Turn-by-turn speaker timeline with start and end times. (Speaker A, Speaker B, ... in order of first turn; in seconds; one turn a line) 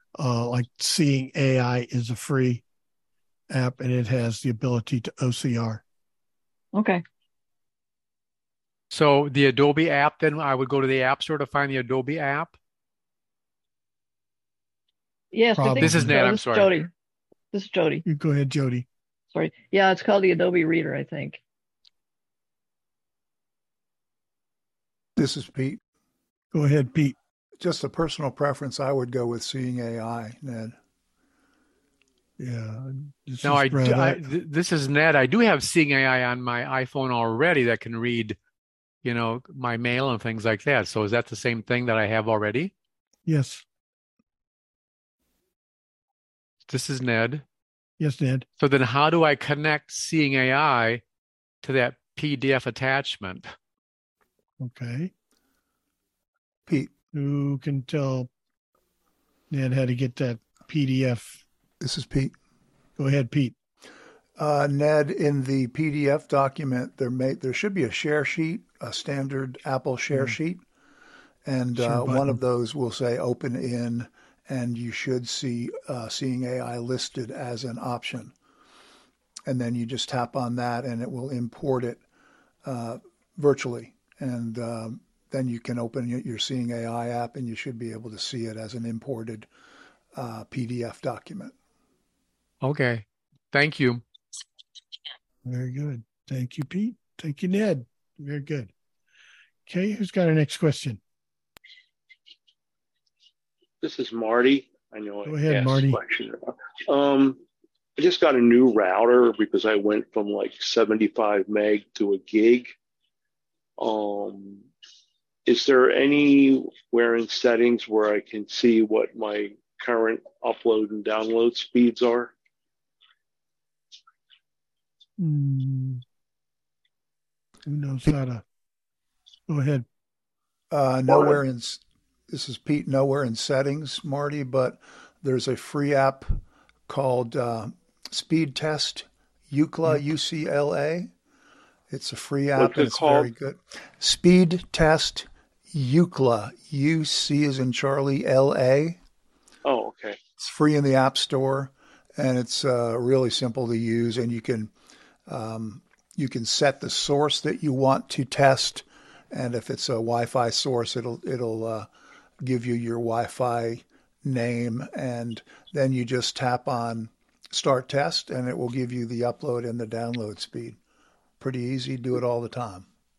Speaker A: 0.2-2.6
Speaker A: 3.5-5.8
Speaker B: 6.7-7.0
Speaker C: 8.9-12.6
Speaker B: 15.3-16.9
Speaker A: 15.5-16.2
Speaker C: 15.8-16.7
Speaker B: 17.5-18.0
Speaker A: 18.0-18.9
Speaker B: 19.3-21.4
Speaker D: 25.2-25.8
Speaker A: 26.5-27.1
Speaker D: 27.6-30.7
Speaker A: 32.4-34.2
Speaker C: 33.4-38.4
Speaker C: 39.0-42.7
Speaker A: 43.2-43.6
Speaker C: 46.7-47.4
Speaker A: 48.0-48.5
Speaker C: 48.6-51.0
Speaker C: 51.6-53.5
Speaker A: 54.6-55.1
Speaker A: 57.1-58.3
Speaker A: 59.5-61.4
Speaker D: 61.8-62.3
Speaker A: 63.0-63.5
Speaker D: 64.4-70.6
Speaker A: 70.1-70.4
Speaker D: 71.5-78.3
Speaker A: 71.8-72.4
Speaker D: 79.5-82.0
Speaker D: 82.6-89.5
Speaker D: 90.1-91.5
Speaker C: 92.6-94.0
Speaker A: 95.4-98.7
Speaker A: 99.7-101.0
Speaker E: 103.8-107.4
Speaker A: 105.2-106.0
Speaker E: 108.0-112.7
Speaker E: 113.8-114.7
Speaker E: 115.5-122.3
Speaker A: 125.2-126.0
Speaker A: 127.7-128.4
Speaker A: 129.5-129.8
Speaker D: 130.7-136.3
Speaker D: 136.9-141.1
Speaker D: 141.9-149.0
Speaker E: 142.5-143.3
Speaker E: 149.7-150.2
Speaker D: 150.4-154.7
Speaker D: 155.3-161.9
Speaker D: 162.4-170.8
Speaker D: 171.4-172.8